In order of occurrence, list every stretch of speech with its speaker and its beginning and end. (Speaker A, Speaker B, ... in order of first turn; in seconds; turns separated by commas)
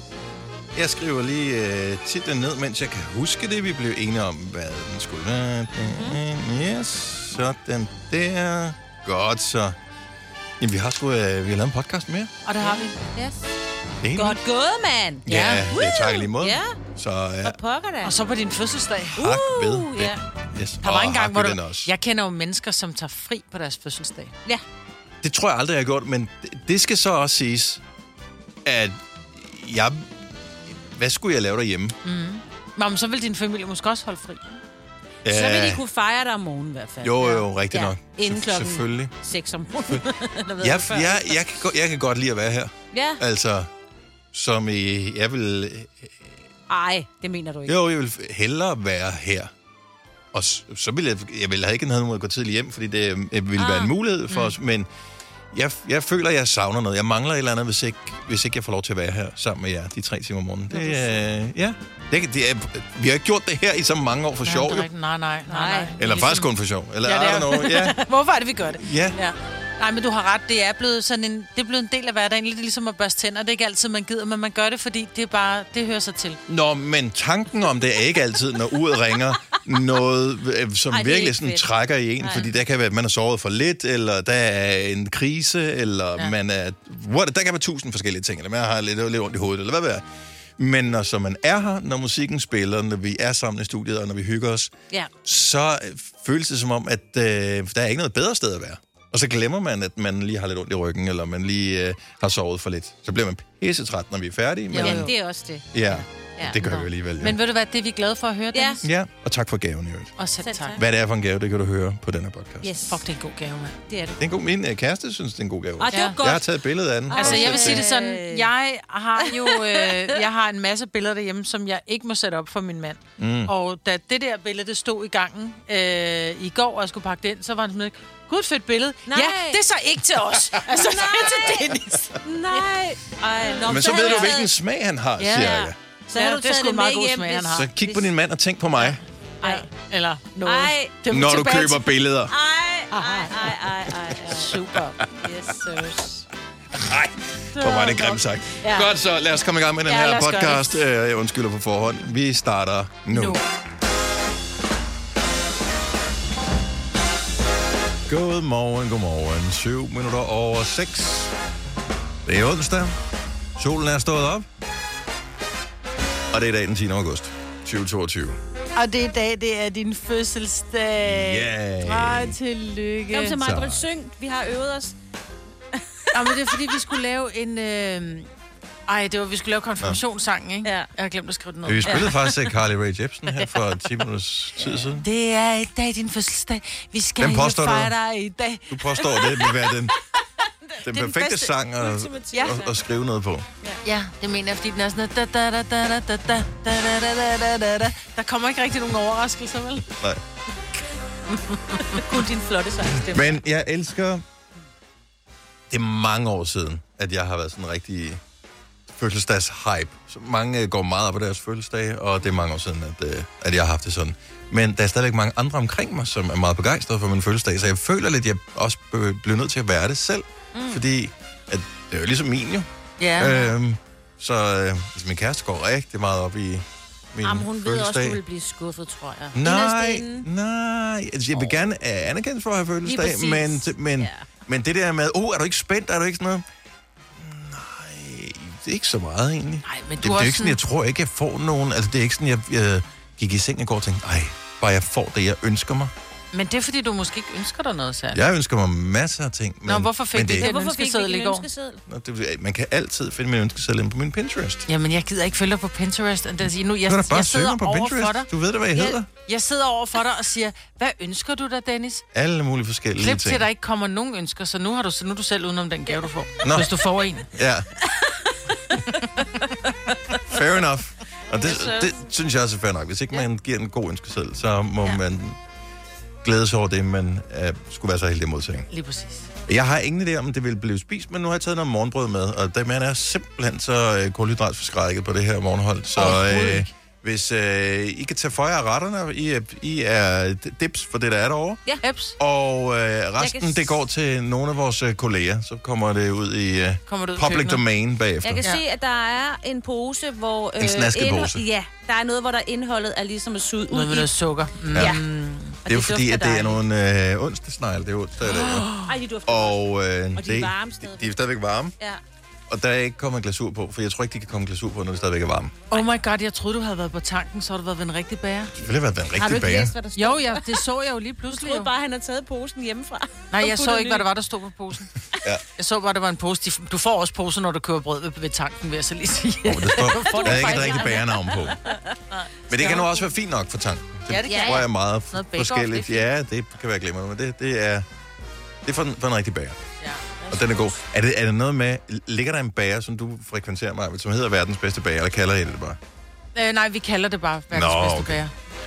Speaker A: 0.7-9.8, Speaker A: 10.6-12.3, Speaker B: 12.4-13.0, Speaker C: 12.6-13.4, Speaker A: 14.0-14.4, Speaker C: 14.1-16.8, Speaker A: 15.2-17.6, Speaker B: 15.3-15.6, Speaker C: 17.4-18.2, Speaker B: 18.0-19.2, Speaker A: 19.2-21.9, Speaker C: 19.2-20.2, Speaker B: 20.8-24.3, Speaker A: 25.2-27.8, Speaker A: 28.6-31.9, Speaker B: 32.0-34.6, Speaker A: 35.2-35.8, Speaker C: 35.2-41.4, Speaker A: 37.0-39.1, Speaker A: 40.6-43.7, Speaker C: 42.9-43.2, Speaker A: 44.3-46.3, Speaker C: 46.7-47.8, Speaker A: 47.7-49.5, Speaker A: 50.3-54.9, Speaker C: 53.5-53.9, Speaker A: 55.5-64.9, Speaker B: 64.5-66.5, Speaker C: 65.5-65.9, Speaker A: 66.0-68.0, Speaker B: 67.0-76.4, Speaker A: 68.7-69.2, Speaker A: 76.5-90.0, Speaker C: 80.9-81.6, Speaker C: 82.2-82.5, Speaker A: 90.6-94.7, Speaker A: 95.2-105.1, Speaker B: 104.7-105.1, Speaker C: 104.8-106.6, Speaker A: 105.7-107.4, Speaker B: 106.6-108.8, Speaker C: 108.5-108.8, Speaker A: 108.8-110.1, Speaker B: 110.2-110.8, Speaker C: 110.4-110.8, Speaker A: 110.8-112.8, Speaker C: 112.6-113.0, Speaker B: 112.9-113.8, Speaker C: 113.9-114.2, Speaker A: 114.2-117.8, Speaker C: 115.8-116.5, Speaker B: 115.9-116.2, Speaker C: 117.1-118.5, Speaker B: 117.1-132.7, Speaker C: 119.2-120.2, Speaker A: 123.2-123.5, Speaker C: 129.1-129.6, Speaker C: 130.7-134.5, Speaker B: 133.4-134.3, Speaker A: 133.7-135.8, Speaker B: 135.2-138.0, Speaker C: 135.4-137.6, Speaker A: 137.5-139.0, Speaker C: 139.4-139.7, Speaker B: 139.4-141.9, Speaker C: 140.4-140.9, Speaker A: 141.1-142.3, Speaker C: 142.3-144.6, Speaker B: 142.9-143.5, Speaker B: 144.2-145.0, Speaker A: 145.0-145.3, Speaker C: 145.2-146.2, Speaker A: 146.7-153.4, Speaker B: 147.6-148.8, Speaker C: 149.9-150.8, Speaker B: 153.1-153.4, Speaker A: 158.1-161.3, Speaker A: 162.2-163.0, Speaker A: 163.6-164.5, Speaker A: 166.3-168.4, Speaker B: 168.8-173.4, Speaker A: 171.0-172.4, Speaker C: 173.1-174.9, Speaker A: 173.4-173.9, Speaker B: 176.1-178.3, Speaker B: 178.9-182.3, Speaker A: 181.7-185.1, Speaker C: 181.8-182.3, Speaker B: 185.0-189.3, Speaker A: 187.2-187.9, Speaker A: 188.7-189.9, Speaker A: 190.8-193.5, Speaker B: 190.9-191.5, Speaker C: 191.8-192.8, Speaker B: 193.8-199.9, Speaker A: 199.9-200.2, Speaker B: 201.5-202.0, Speaker C: 201.9-203.4, Speaker A: 203.1-204.2, Speaker A: 205.7-208.2, Speaker A: 208.9-228.2, Speaker C: 220.5-220.8, Speaker B: 223.0-223.4, Speaker C: 227.2-230.2, Speaker A: 229.3-236.4, Speaker C: 232.8-234.2, Speaker A: 237.2-245.9, Speaker B: 239.6-240.6, Speaker B: 246.3-248.2, Speaker A: 248.1-250.5, Speaker B: 249.7-251.4, Speaker C: 250.3-251.8, Speaker A: 251.9-254.7, Speaker B: 254.7-258.3, Speaker A: 256.9-259.1, Speaker B: 259.2-262.0, Speaker A: 262.1-263.4, Speaker B: 263.0-267.3, Speaker A: 266.4-266.7, Speaker A: 267.3-267.7, Speaker A: 270.2-275.4, Speaker C: 271.4-271.9, Speaker A: 276.2-278.7, Speaker B: 278.7-279.3, Speaker A: 279.5-291.6, Speaker B: 285.9-286.7, Speaker B: 291.8-292.1, Speaker A: 292.2-298.5, Speaker C: 293.2-293.7, Speaker B: 296.9-297.6, Speaker C: 298.2-304.1, Speaker A: 300.6-301.4, Speaker B: 303.7-305.6, Speaker C: 304.7-305.0, Speaker C: 305.6-306.6, Speaker A: 305.6-308.7, Speaker B: 308.2-308.9, Speaker C: 308.8-309.6, Speaker A: 309.2-311.7, Speaker C: 310.1-311.2, Speaker A: 312.5-315.6, Speaker B: 315.7-318.5, Speaker A: 318.6-319.7, Speaker C: 319.1-320.6, Speaker B: 319.9-321.7, Speaker C: 321.3-324.1, Speaker B: 323.3-324.9, Speaker B: 325.6-330.9, Speaker A: 329.4-331.6, Speaker C: 329.9-331.9, Speaker B: 331.7-333.0, Speaker A: 332.5-337.9, Speaker B: 334.1-336.1, Speaker C: 334.3-334.6, Speaker A: 338.6-339.6, Speaker C: 340.2-340.5, Speaker A: 340.3-345.8, Speaker B: 346.3-348.3, Speaker A: 347.5-348.2